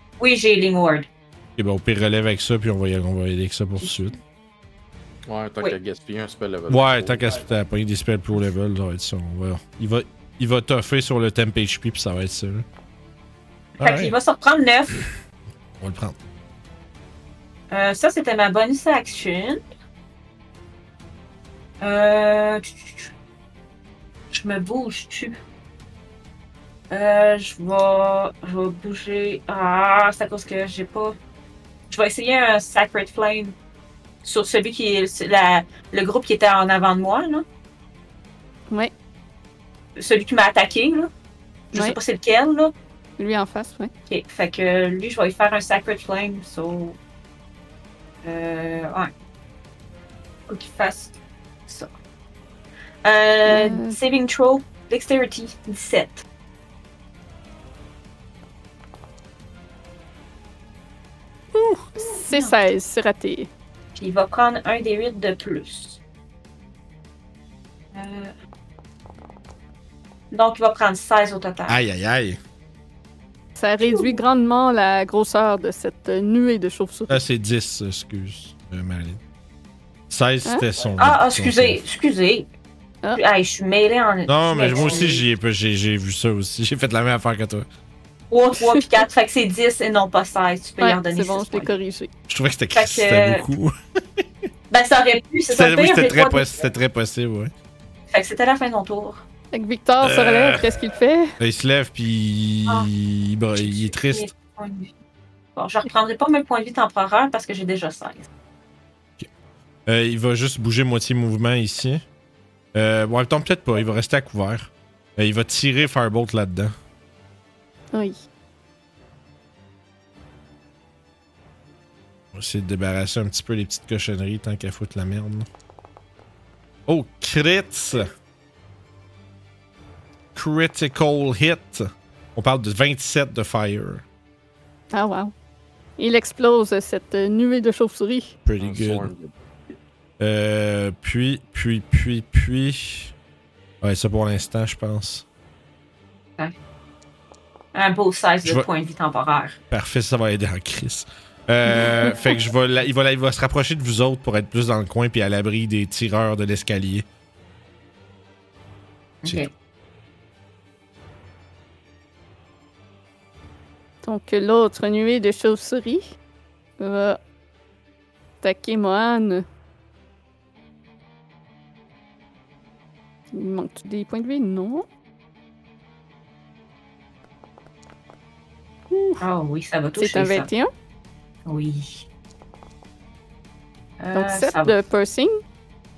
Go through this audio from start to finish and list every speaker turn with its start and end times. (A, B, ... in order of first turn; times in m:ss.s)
0:00.2-0:01.1 A
0:01.6-0:04.2 B
0:05.3-0:07.3 C
0:06.7-0:12.7 B
0:13.8-0:15.1 A
0:13.8-0:14.1 B
0:15.8-0:16.2 B
0:17.7-0:19.6 A
0:21.8-0:23.1 A
0:24.3-0:25.4 A
0:26.9-0:31.2 A
0:31.9-0:33.5 A
0:34.2-0:37.4 A
0:40.0-0:41.1 A
0:41.7-0:42.7 A
0:43.2-0:43.9 D
0:44.1-0:47.0 A
0:48.2-0:49.1 A
0:50.5-0:51.2 A
0:53.0-0:56.2 A
0:53.5-0:54.0 D
1:01.5-1:01.9 B
1:02.0-1:03.5 D
1:02.3-1:02.6 A
1:04.0-1:06.0 A
1:07.9-1:08.3 A
1:10.3-1:11.8 A
1:11.7-1:12.4 B
1:13.6-1:17.2 D
1:17.1-1:19.2 B
1:20.1-1:21.8 B
1:21.0-1:22.5 A
1:23.2-1:25.2 A
1:24.3-1:27.7 B
1:28.3-1:31.7 A
1:28.6-1:28.9 D
1:30.8-1:32.1 D
1:32.3-1:34.3 B
1:32.7-1:33.4 A
1:34.7-1:36.5 A
1:35.5-1:37.5 B
1:38.1-1:39.2 A
1:39.5-1:41.3 D
1:40.0-1:40.7 B
1:41.4-1:44.3 B
1:43.6-1:44.9 A
1:45.6-1:48.3 A
1:49.9-1:52.0 B
1:52.8-1:56.7 B
2:02.3-2:05.5 B
2:06.9-2:08.1 B
2:10.4-2:14.0 B
2:14.9-2:15.3 D
2:16.0-2:18.4 D
2:18.4-2:19.1 B
2:18.6-2:19.4 C
2:20.2-2:23.1 B
2:23.8-2:25.2 B
2:27.7-2:29.6 A
2:29.7-2:37.1 B
2:39.2-2:39.5 A
2:44.0-2:46.1 D
2:46.8-2:47.2 D
2:48.4-2:49.4 D
2:53.3-2:54.9 D
2:58.9-2:59.2 D
2:59.2-3:00.5 A
3:00.0-3:00.7 D
3:01.5-3:02.0 A
3:04.0-3:04.8 A
3:04.1-3:05.4 D